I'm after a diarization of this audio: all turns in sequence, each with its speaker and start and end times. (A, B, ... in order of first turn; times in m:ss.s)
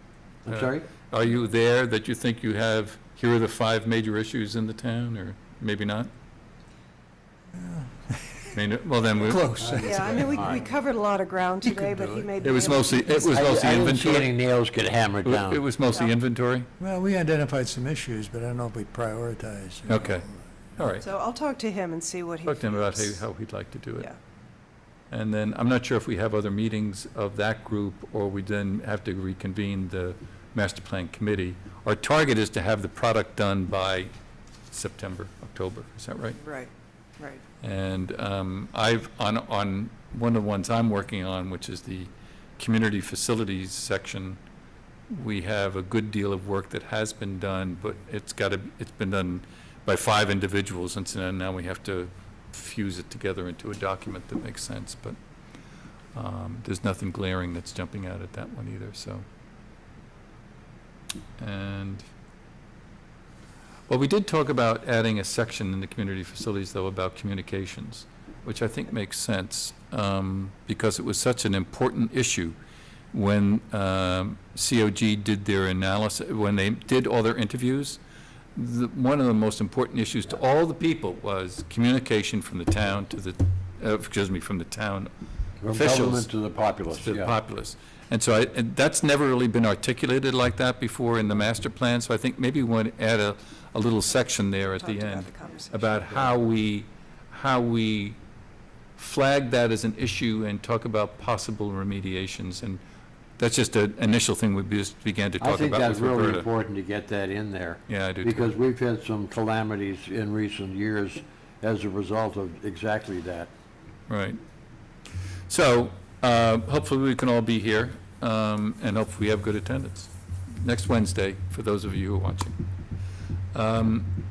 0:00.5-0:00.8 A
0:00.5-0:06.1 B
0:07.5-0:08.5 C
0:08.5-0:09.5 B
0:09.2-0:10.7 C
0:09.6-0:10.6 A
0:09.8-0:13.8 D
0:11.8-0:12.6 C
0:12.4-0:14.3 B
0:13.3-0:15.6 A
0:15.2-0:16.7 B
0:16.8-0:20.4 C
0:19.9-0:21.0 B
0:21.0-0:23.2 D
0:22.5-0:24.1 B
0:25.1-0:34.1 B
0:34.7-0:36.4 B
0:36.4-0:37.4 D
0:37.6-0:44.4 B
0:45.1-0:55.2 B
0:56.2-0:59.2 B
1:01.4-1:02.1 B
1:03.9-1:12.6 B
1:13.1-1:18.0 B
1:18.6-1:25.1 B
1:25.6-1:27.3 A
1:25.7-1:26.3 B
1:26.9-1:38.2 B
1:34.7-1:35.9 D
1:39.0-1:42.8 B
1:43.4-1:46.5 B
1:45.4-1:53.5 A
1:47.9-1:48.5 B
1:54.1-1:54.4 B
1:55.5-2:00.1 B
2:00.6-2:02.6 B
2:03.5-2:04.2 B